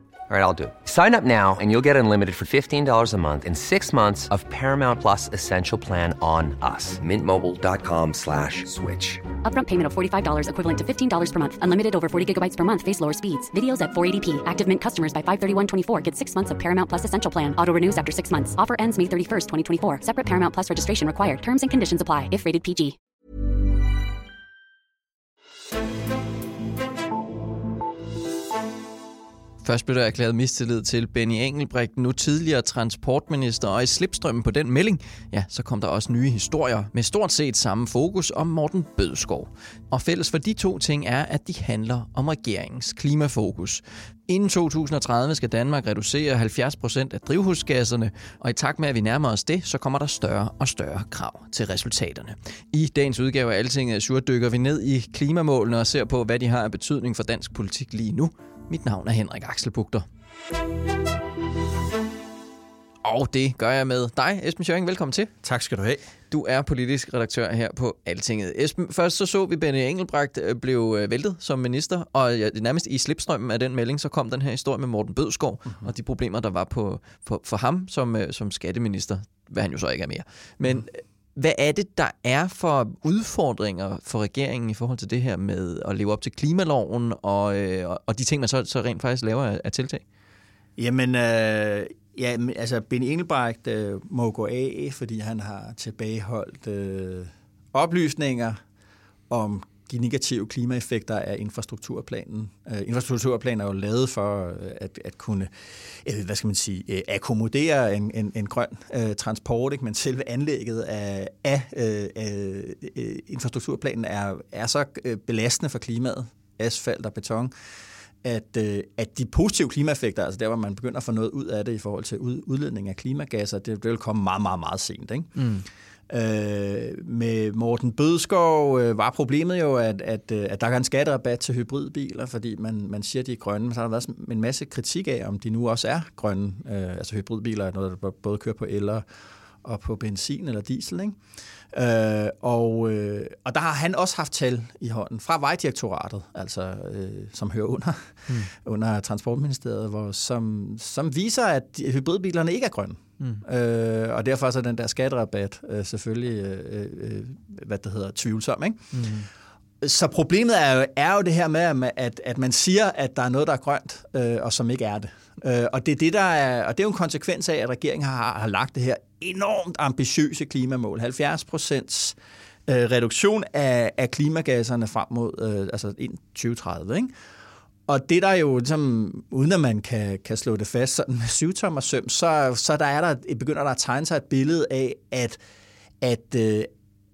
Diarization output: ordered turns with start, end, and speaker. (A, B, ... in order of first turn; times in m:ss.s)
0:00.3-0:09.2 A
0:09.4-0:23.0 B
0:29.6-1:00.1 C
1:03.0-1:05.3 C
1:05.4-1:06.0 D
1:06.3-1:30.0 C
1:30.8-1:38.6 D
1:39.3-1:45.5 D
1:46.0-1:57.5 D
1:58.2-2:05.4 D
2:05.4-2:05.6 C
2:06.1-2:19.0 D
2:19.6-2:21.2 D
2:21.7-2:39.0 D
2:38.9-2:39.3 C
2:39.8-2:57.1 D
2:57.9-3:05.4 D
3:06.0-3:06.7 D